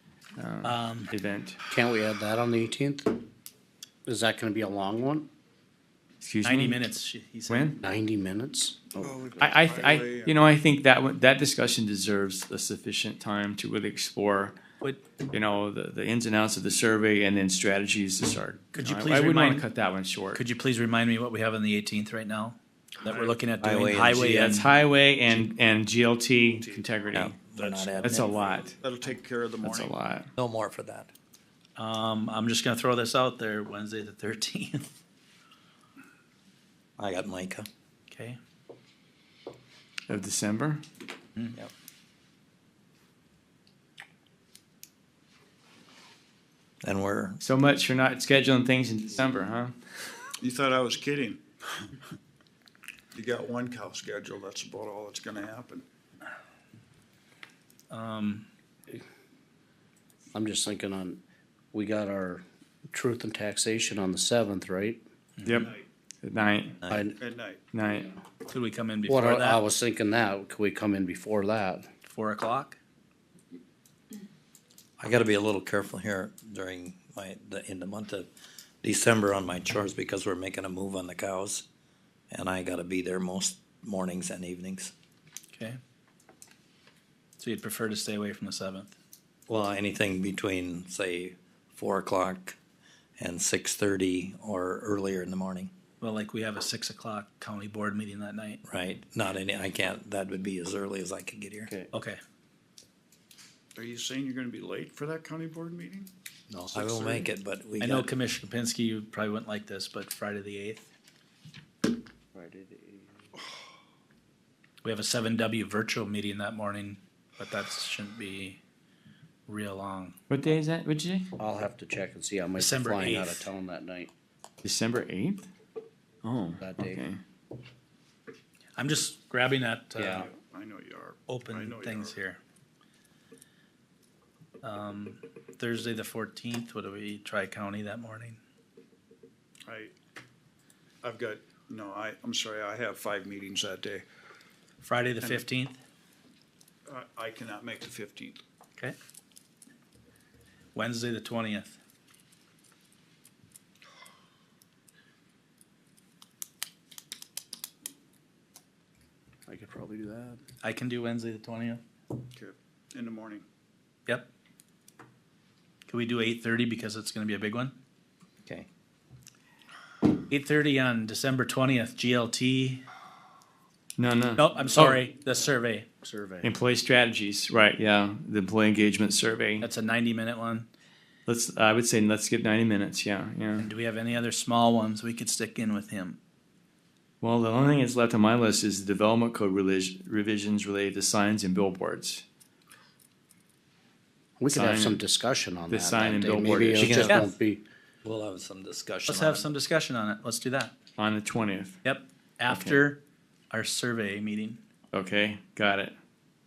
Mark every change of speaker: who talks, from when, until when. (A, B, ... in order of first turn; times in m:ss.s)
0:00.4-0:01.6 A
0:00.6-0:01.1 B
0:01.7-0:03.2 C
0:04.1-0:05.3 C
0:06.2-0:06.8 A
0:06.4-0:07.8 B
0:07.5-0:07.8 A
0:07.8-0:09.1 C
0:09.0-0:10.4 D
0:09.4-0:14.6 A
0:15.3-0:20.4 A
0:18.7-0:19.7 B
0:20.3-0:24.7 B
0:23.1-0:23.4 D
0:23.6-0:24.5 E
0:24.4-0:27.4 A
0:26.5-0:26.9 D
0:27.1-0:28.6 E
0:27.6-0:29.9 D
0:28.0-0:28.8 A
0:29.6-0:30.3 A
0:30.4-0:31.1 E
0:31.8-0:34.9 B
0:37.0-0:37.7 E
0:38.1-0:38.4 B
0:40.1-0:40.8 A
0:46.8-0:47.4 E
0:47.4-0:49.8 A
0:50.4-0:51.9 D
0:53.1-0:55.9 D
0:57.9-0:58.5 B
1:00.3-1:01.2 C
1:01.7-1:05.0 C
1:05.4-1:05.7 B
1:05.4-1:06.9 A
1:06.9-1:07.2 C
1:07.2-1:07.6 D
1:07.7-1:08.1 A
1:08.4-1:09.6 B
1:09.1-1:11.9 C
1:12.1-1:12.8 B
1:15.0-1:18.3 E
1:18.8-1:21.6 E
1:22.3-1:24.9 E
1:25.5-1:25.8 B
1:27.4-1:28.9 B
1:29.5-1:32.6 E
1:33.2-1:35.7 E
1:36.0-1:38.6 B
1:38.6-1:41.7 E
1:41.9-1:42.2 B
1:43.8-1:46.1 D
1:46.5-1:48.1 E
1:47.8-1:50.8 B
1:52.3-1:53.3 C
1:54.8-1:58.6 B
1:59.5-2:00.2 B
2:00.3-2:01.3 A
2:01.4-2:04.1 C
2:02.6-2:03.5 B
2:04.6-2:05.5 A
2:06.2-2:07.2 A
2:06.6-2:07.0 C
2:08.8-2:10.3 B
2:10.0-2:10.2 C
2:10.3-2:12.2 D
2:11.3-2:12.4 B
2:14.6-2:18.4 B
2:19.7-2:19.9 D
2:21.0-2:24.1 D
2:24.8-2:25.8 B
2:26.9-2:28.4 D
2:30.8-2:31.8 B
2:39.6-2:40.3 C
2:40.6-2:41.8 B
2:42.4-2:43.4 D
2:45.9-2:47.7 B
2:50.2-2:52.8 B
2:54.0-2:55.0 A
2:54.4-2:55.9 B
2:54.6-2:55.0 C
2:56.0-2:56.5 C
2:56.4-2:59.7 A
2:59.6-3:00.7 B
3:01.3-3:03.7 A
3:03.6-3:06.2 B
3:07.2-3:12.2 A
3:14.4-3:17.6 C
3:14.5-3:15.0 A
3:15.7-3:17.3 A
3:16.8-3:17.2 E
3:18.0-3:19.5 E
3:19.1-3:20.7 B
3:21.0-3:21.8 A
3:21.8-3:24.6 B
3:22.5-3:22.8 A
3:24.9-3:26.0 A